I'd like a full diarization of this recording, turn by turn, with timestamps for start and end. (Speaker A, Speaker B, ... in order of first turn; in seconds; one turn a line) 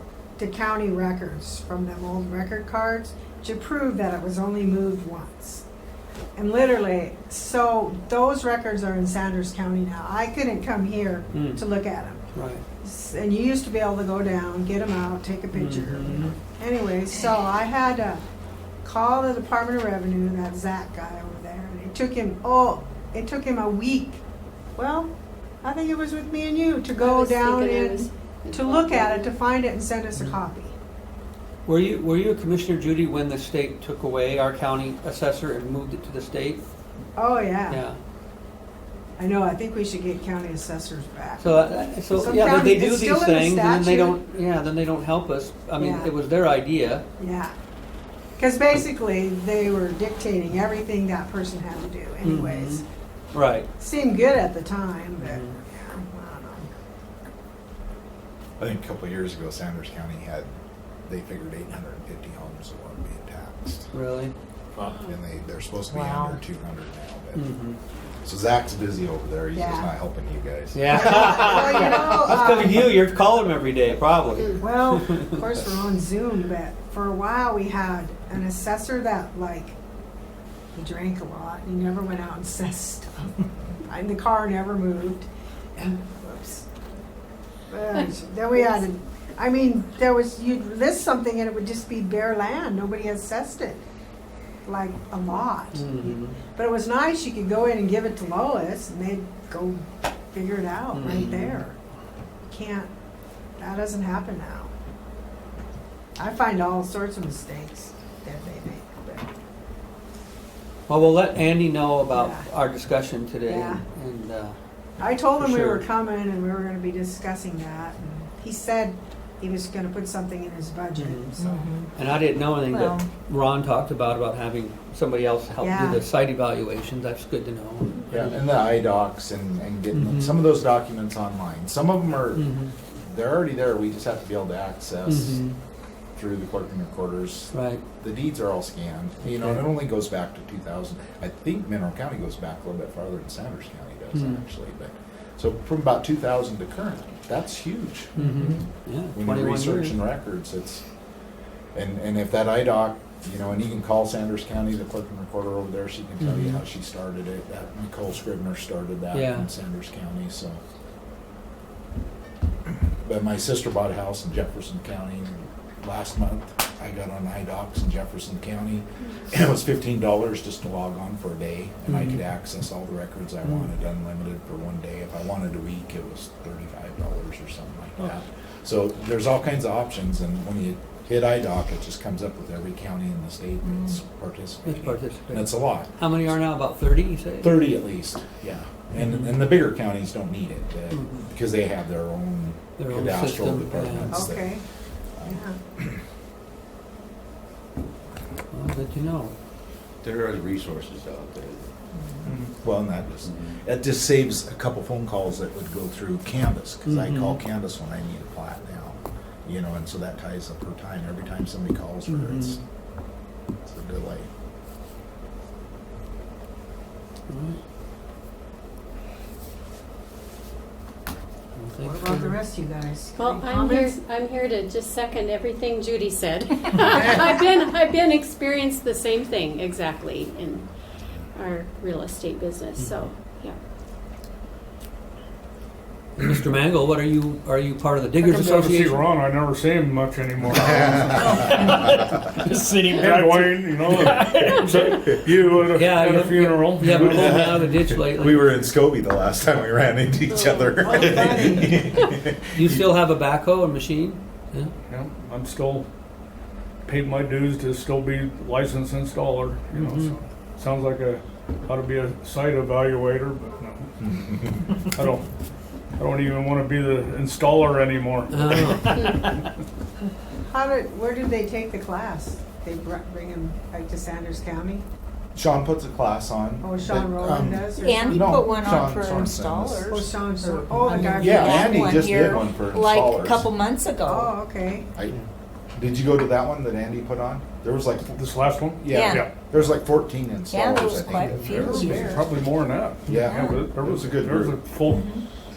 Speaker A: 0.4-5.6
Speaker A: 6.4-12.2
Speaker B: 11.3-11.6
Speaker B: 12.3-12.6
Speaker A: 12.8-18.2
Speaker B: 15.5-16.3
Speaker A: 18.8-24.2
Speaker A: 24.8-25.1
Speaker A: 25.6-30.7
Speaker C: 27.0-29.4
Speaker B: 31.7-36.6
Speaker A: 37.2-37.8
Speaker B: 37.7-38.0
Speaker A: 39.2-44.2
Speaker B: 41.4-47.0
Speaker A: 45.8-46.1
Speaker A: 47.2-47.5
Speaker A: 48.4-52.8
Speaker B: 52.2-53.7
Speaker A: 53.8-56.7
Speaker B: 55.2-55.6
Speaker D: 58.6-60.5
Speaker D: 61.1-63.9
Speaker B: 63.9-64.3
Speaker C: 64.8-65.2
Speaker D: 65.0-67.5
Speaker E: 65.9-66.4
Speaker B: 67.3-67.8
Speaker D: 68.2-71.8
Speaker A: 69.5-69.9
Speaker B: 70.7-75.4
Speaker A: 70.9-73.0
Speaker A: 74.6-79.8
Speaker A: 80.8-86.7
Speaker A: 87.7-93.8
Speaker A: 94.7-101.8
Speaker B: 95.7-96.3
Speaker B: 100.9-101.6
Speaker A: 102.5-102.9
Speaker A: 103.6-104.7
Speaker A: 106.2-109.3
Speaker B: 110.9-114.5
Speaker A: 112.1-112.5
Speaker A: 113.5-113.8
Speaker A: 115.0-121.7
Speaker B: 115.4-115.8
Speaker B: 121.0-121.3
Speaker E: 121.4-121.8
Speaker B: 122.0-128.4
Speaker E: 122.7-123.1
Speaker A: 125.6-126.0
Speaker D: 128.1-135.4
Speaker B: 129.9-130.4
Speaker B: 132.3-132.7
Speaker B: 135.1-135.6
Speaker D: 136.2-150.8
Speaker B: 137.5-137.8
Speaker B: 139.2-139.7
Speaker B: 144.1-144.4
Speaker B: 148.2-150.0
Speaker D: 151.8-160.6
Speaker B: 156.2-156.6
Speaker B: 159.1-159.5
Speaker D: 163.0-185.9
Speaker B: 171.9-172.2
Speaker B: 173.4-173.7
Speaker B: 184.7-187.6
Speaker D: 187.4-194.6
Speaker B: 189.0-189.4
Speaker B: 190.9-191.3
Speaker B: 192.8-194.3
Speaker A: 194.1-194.6
Speaker D: 195.2-196.0
Speaker A: 195.3-195.6
Speaker B: 198.5-199.3
Speaker F: 200.0-201.7
Speaker D: 202.3-212.6
Speaker F: 203.2-203.5
Speaker B: 206.9-207.4
Speaker B: 212.1-212.6
Speaker D: 213.6-214.3
Speaker B: 217.3-217.6
Speaker B: 221.6-222.4
Speaker A: 221.8-224.0
Speaker C: 223.2-230.7
Speaker C: 231.3-233.6
Speaker B: 232.8-233.1
Speaker B: 236.2-239.0
Speaker G: 238.2-242.0
Speaker D: 240.5-241.6
Speaker E: 241.2-241.5
Speaker B: 242.4-245.1
Speaker G: 242.9-247.6
Speaker B: 245.7-248.6
Speaker D: 247.1-252.9
Speaker C: 250.3-251.3
Speaker A: 250.8-251.7
Speaker B: 252.5-254.7
Speaker G: 254.9-255.9
Speaker G: 256.9-264.1
Speaker B: 259.7-260.1
Speaker D: 264.1-264.5
Speaker G: 264.8-265.2
Speaker G: 266.0-268.9
Speaker B: 268.3-269.5
Speaker A: 270.4-274.8
Speaker D: 275.4-280.0
Speaker A: 276.6-278.5
Speaker E: 277.8-284.3
Speaker A: 279.9-282.0
Speaker D: 281.0-283.5
Speaker A: 284.1-284.9
Speaker D: 285.8-288.2
Speaker G: 288.1-289.4
Speaker D: 288.8-292.2
Speaker E: 288.9-289.3
Speaker E: 290.5-292.3
Speaker G: 291.3-295.2
Speaker D: 293.1-294.6
Speaker E: 293.2-293.7
Speaker E: 294.8-295.2